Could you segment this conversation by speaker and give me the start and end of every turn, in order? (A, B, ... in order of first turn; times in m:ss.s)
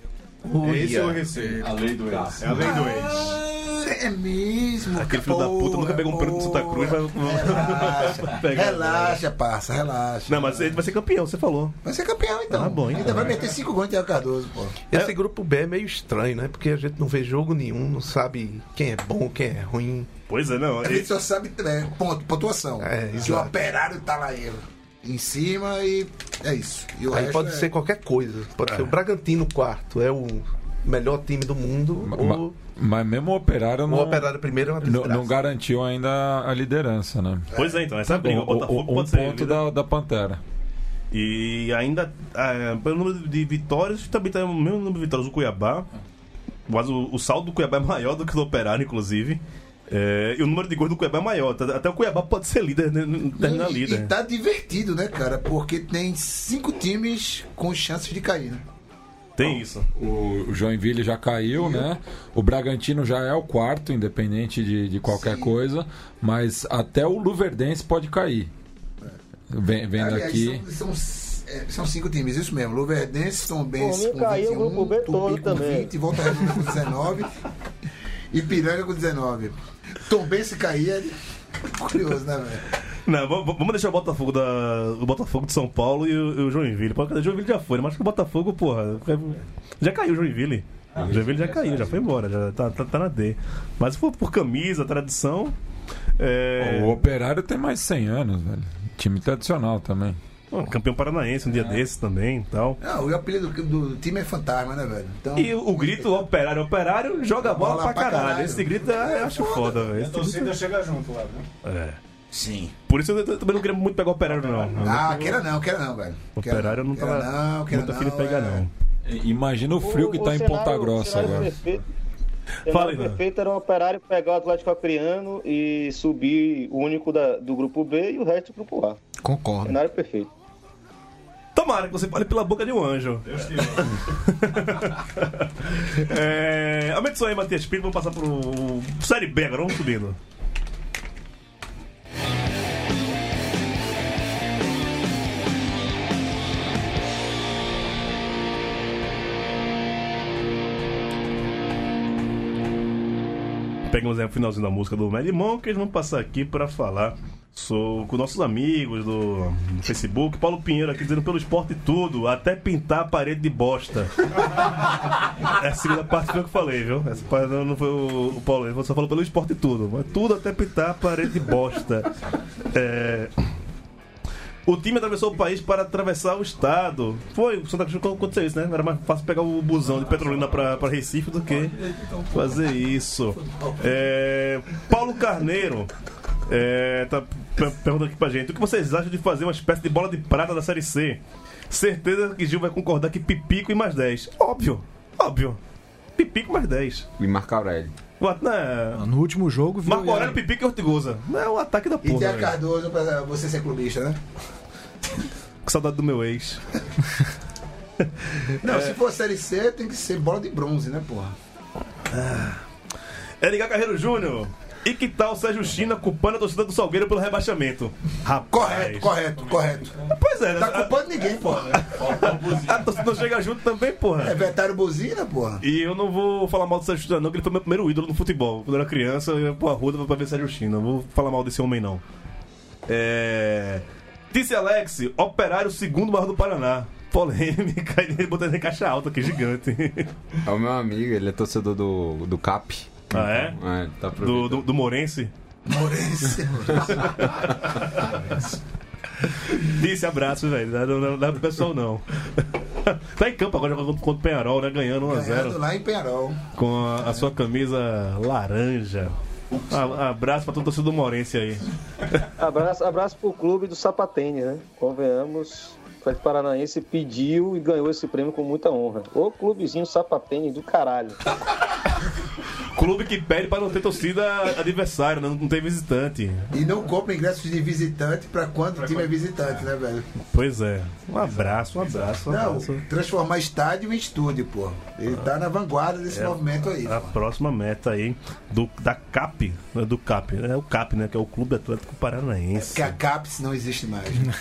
0:00.4-0:01.3 A
0:00.6-0:01.6 B
0:01.4-0:02.8 C
0:01.9-0:02.4 D
0:02.4-0:03.3 B
0:02.5-0:10.8 E
0:04.9-0:09.2 F
0:10.3-0:11.8 F
0:11.8-0:14.8 E
0:12.5-0:13.4 F
0:14.9-0:20.1 A
0:20.3-0:21.1 F
0:20.8-0:27.7 E
0:22.8-0:23.6 A
0:27.1-0:32.6 A
0:32.0-0:34.3 D
0:33.8-0:35.4 A
0:34.8-0:37.5 D
0:37.6-0:37.8 E
0:37.6-0:39.6 F
0:38.0-0:40.4 D
0:41.1-0:45.9 F
0:46.7-0:54.1 F
0:53.4-0:58.6 E
0:59.4-0:59.9 F
0:59.9-1:08.5 D
1:01.6-1:01.9 E
1:05.1-1:05.5 E
1:09.5-1:10.6 D
1:10.0-1:17.3 E
1:13.8-1:15.9 G
1:18.3-1:22.6 E
1:23.1-1:35.5 F
1:31.0-1:31.5 B
1:36.2-1:37.0 F
1:36.6-1:40.2 D
1:40.5-1:42.8 F
1:42.8-1:46.2 E
1:45.4-1:50.5 F
1:47.4-1:49.9 E
1:50.0-1:51.5 B
1:51.6-1:52.0 F
1:52.3-1:52.7 E
1:52.9-1:55.3 F
1:54.2-1:55.4 B
1:54.8-1:58.6 E
1:56.4-1:58.7 F
1:59.1-2:01.6 D
1:59.8-2:01.8 G
2:02.7-2:03.2 F
2:02.7-2:09.0 G
2:09.2-2:09.8 H
2:09.6-2:10.3 G
2:11.5-2:20.2 F
2:13.3-2:13.8 B
2:33.9-2:44.9 F
2:45.4-2:52.1 F
2:52.7-2:53.3 F
2:54.7-3:01.8 F
3:02.3-3:05.9 F
3:06.5-3:15.6 F
3:16.2-3:17.1 F
3:17.2-3:17.9 C
3:18.2-3:19.0 F
3:19.0-3:20.4 H
3:19.9-3:22.6 F
3:22.0-3:24.2 E
3:25.6-3:26.6 F
3:28.6-3:31.3 E
3:28.6-3:29.0 F
3:32.1-3:32.6 F
3:33.4-3:39.1 F
3:38.5-3:42.3 E
3:40.2-3:41.0 F
3:41.8-3:44.4 F
3:44.2-3:45.6 E
3:45.6-3:52.0 F
3:52.9-4:00.1 F
4:00.4-4:04.7 C
4:03.1-4:03.6 F
4:04.2-4:05.3 F
4:05.6-4:07.3 E
4:07.2-4:08.2 F
4:09.5-4:15.6 F
4:15.0-4:16.4 E
4:16.6-4:19.2 F
4:19.7-4:21.6 F
4:22.4-4:31.2 G
4:32.8-4:36.5 F
4:36.5-4:40.1 E
4:38.8-4:39.1 B
4:40.3-4:42.8 F
4:42.3-4:47.1 E
4:46.1-4:53.0 F
4:52.6-4:54.3 E